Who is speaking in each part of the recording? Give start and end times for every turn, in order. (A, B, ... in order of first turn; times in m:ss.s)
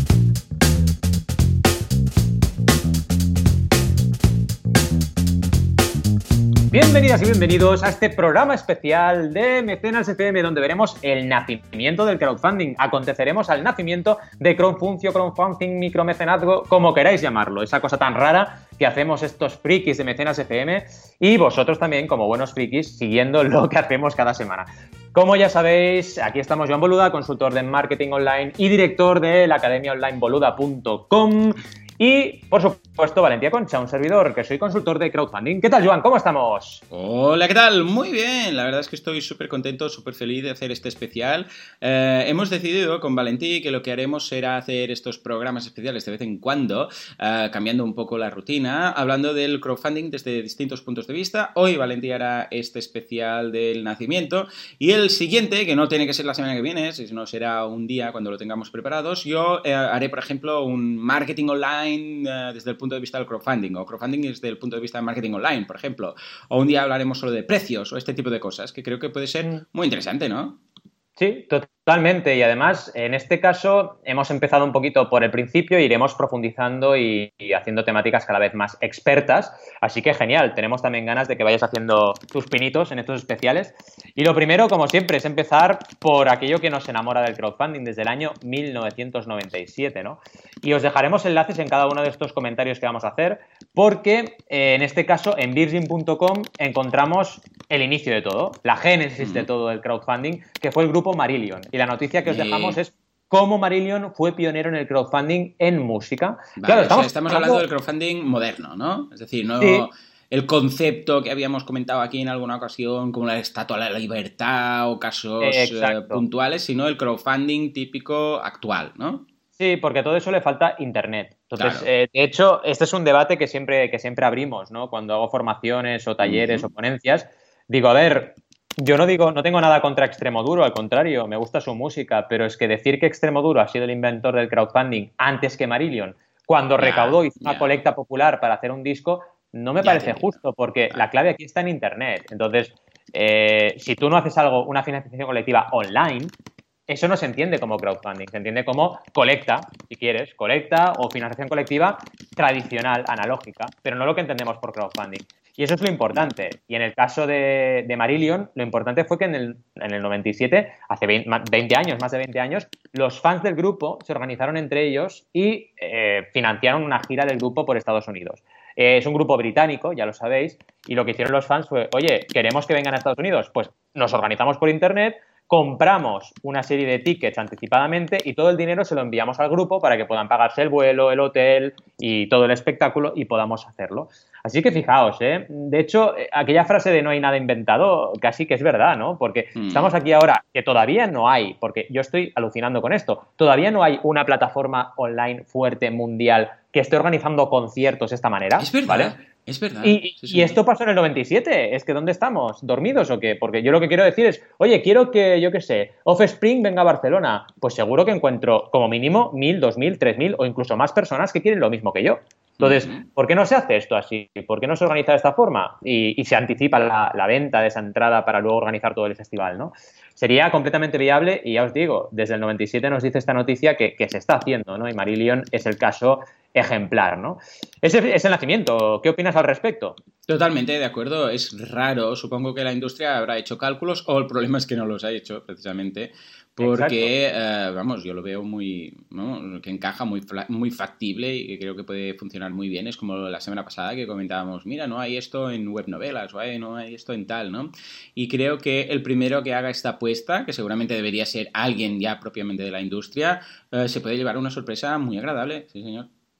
0:06.7-0:36.8 A
0:36.9-1:10.6 B
1:11.2-1:47.6 A
1:39.2-1:39.5 B
1:42.2-1:42.8 B
1:46.6-1:59.2 B
1:49.6-1:49.9 A
1:55.4-1:56.2 A
1:59.6-2:26.3 A
2:01.6-2:01.9 B
2:06.2-2:06.7 B
2:16.8-2:17.7 B
2:19.8-2:20.3 B
2:26.9-3:19.2 A
3:09.6-3:09.9 B
3:18.6-3:20.6 B
3:19.8-3:50.0 A
3:32.6-3:33.0 B
3:50.3-4:16.1 B
3:56.6-3:57.1 A